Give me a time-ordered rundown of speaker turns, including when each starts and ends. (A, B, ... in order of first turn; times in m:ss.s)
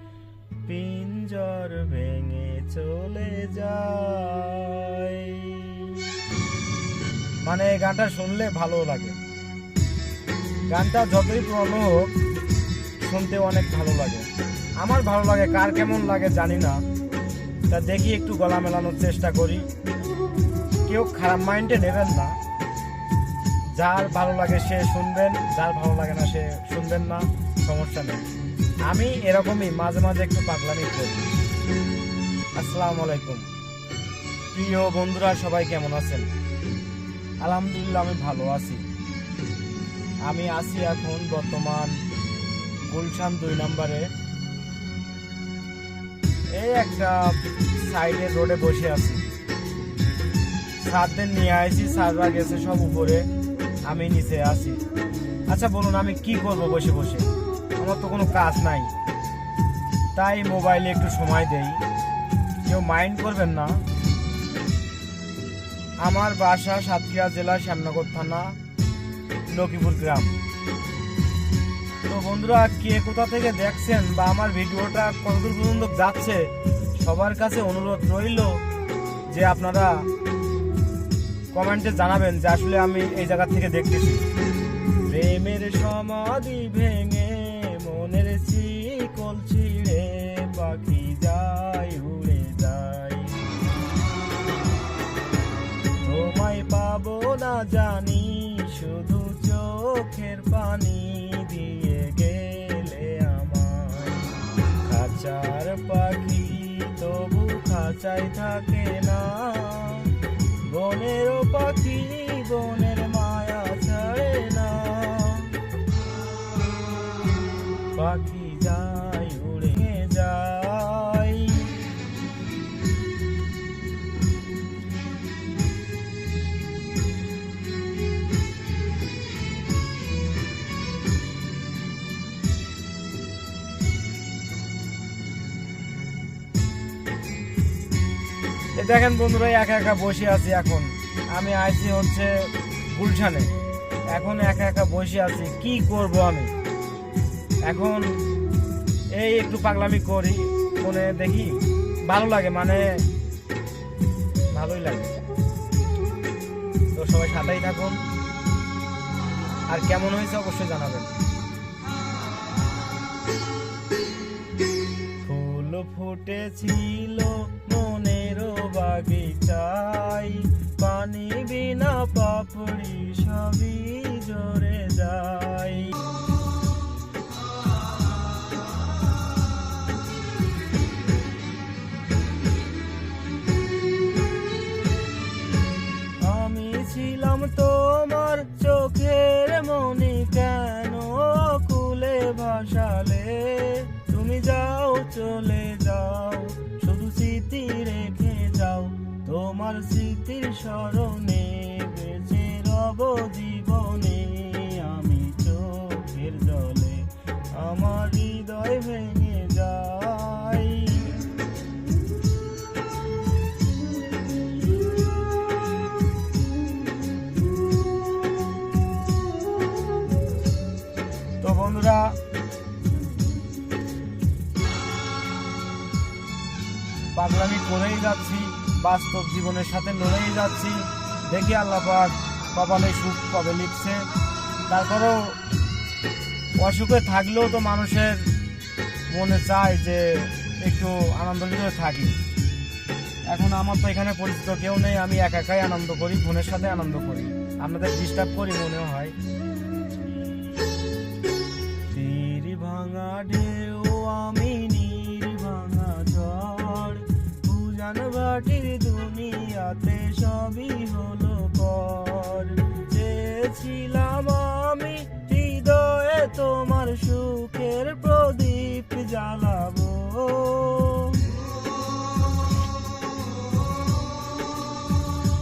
0:00.6-0:06.0 A
0:07.4-0:09.2 A
0:10.7-0:12.1 A
0:13.0-0:14.3 A
0:14.8-0:16.8 A
0:17.7-0:19.7 A
0:20.8-0:22.3 A
0:23.8-0:28.2 A
0:28.8-0:31.3 A
0:32.5-0:33.5 A
0:34.5-0:36.3 A
0:37.4-0:38.8 A
0:40.2-0:42.0 A
0:42.8-0:44.1 A
0:46.5-0:49.3 A
0:50.8-0:53.3 A
0:53.9-0:54.8 A
0:55.5-0:58.9 A
1:00.1-1:01.8 A
1:02.6-1:03.8 A
1:06.0-1:08.5 A
1:09.5-1:10.4 A
1:12.1-1:16.5 A
1:17.0-1:18.6 A
1:19.3-1:19.9 A
1:21.5-1:24.2 A
1:25.0-1:33.4 A
1:36.0-1:55.6 A
1:57.9-2:01.7 A
2:18.8-2:22.3 A
2:22.9-2:23.5 A
2:24.1-2:26.5 A
2:27.6-2:28.1 A
2:29.1-2:33.0 A
2:34.5-2:35.1 A
2:36.9-2:38.0 A
2:39.7-2:41.2 A
2:45.2-2:56.0 A
3:06.2-3:31.2 A
3:41.4-3:42.1 A
3:47.2-3:54.0 A
3:54.7-3:55.2 A
3:56.6-3:58.2 A
3:59.1-4:02.2 A
4:03.3-4:09.1 A
4:11.9-4:31.3 A